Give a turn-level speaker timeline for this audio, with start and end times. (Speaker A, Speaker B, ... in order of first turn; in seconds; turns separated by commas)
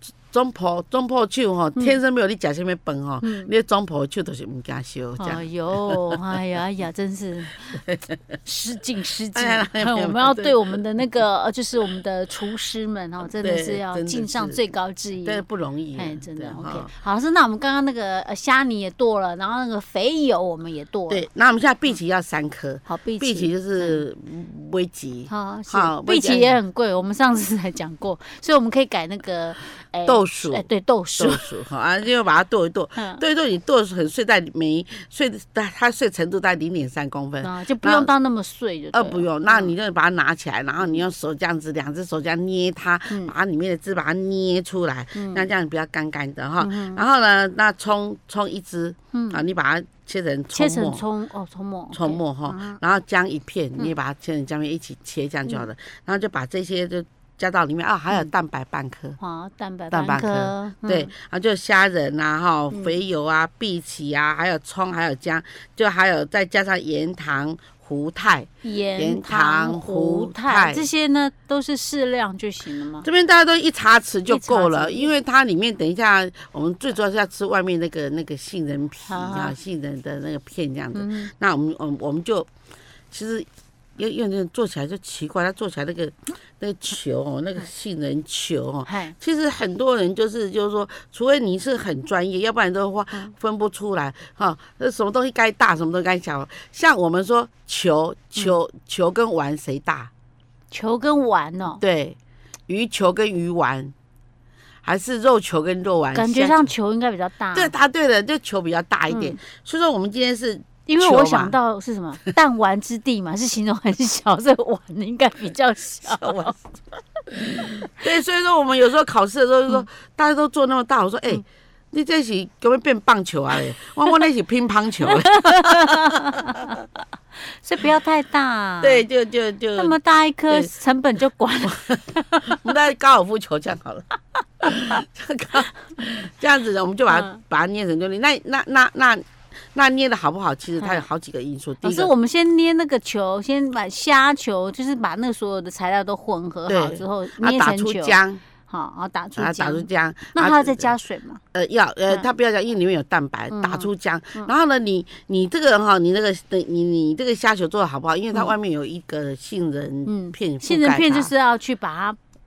Speaker A: 0.3-6.2, Speaker B: 3.2-3.5, Speaker B: 5.2-7.8, Speaker A: 7.7-8.2, Speaker B: 8.4-21.3, Speaker A: 9.3-10.6, Speaker A: 13.4-14.6, Speaker A: 15.2-16.9, Speaker A: 21.1-26.6, Speaker B: 22.9-24.0, Speaker B: 25.3-31.5, Speaker A: 30.1-30.7, Speaker A: 31.2-38.1, Speaker B: 33.0-33.2, Speaker B: 37.4-39.8, Speaker A: 38.9-51.0, Speaker B: 45.1-45.5, Speaker B: 46.6-47.0, Speaker B: 49.1-49.4, Speaker B: 50.5-52.8, Speaker A: 51.9-59.2, Speaker B: 59.2-61.1, Speaker A: 59.9-70.9, Speaker B: 62.7-63.0, Speaker B: 68.6-73.1, Speaker A: 73.0-82.5, Speaker B: 74.3-75.1, Speaker B: 79.1-79.5, Speaker B: 80.9-81.3, Speaker A: 83.1-100.1, Speaker B: 88.8-89.2, Speaker B: 100.7-101.8, Speaker A: 101.8-103.9, Speaker A: 104.8-106.7, Speaker B: 106.1-107.7, Speaker A: 107.5-111.6, Speaker B: 109.1-109.4, Speaker B: 110.9-116.6, Speaker A: 116.0-116.6, Speaker A: 117.4-126.5, Speaker B: 125.0-126.8, Speaker B: 127.5-129.1, Speaker A: 128.8-130.0, Speaker B: 129.8-132.7, Speaker A: 131.7-142.1, Speaker B: 137.1-137.4, Speaker B: 140.8-141.1, Speaker B: 141.8-151.4, Speaker A: 146.7-148.4, Speaker A: 149.4-150.9, Speaker A: 151.5-161.3, Speaker B: 153.5-154.5, Speaker B: 160.1-162.2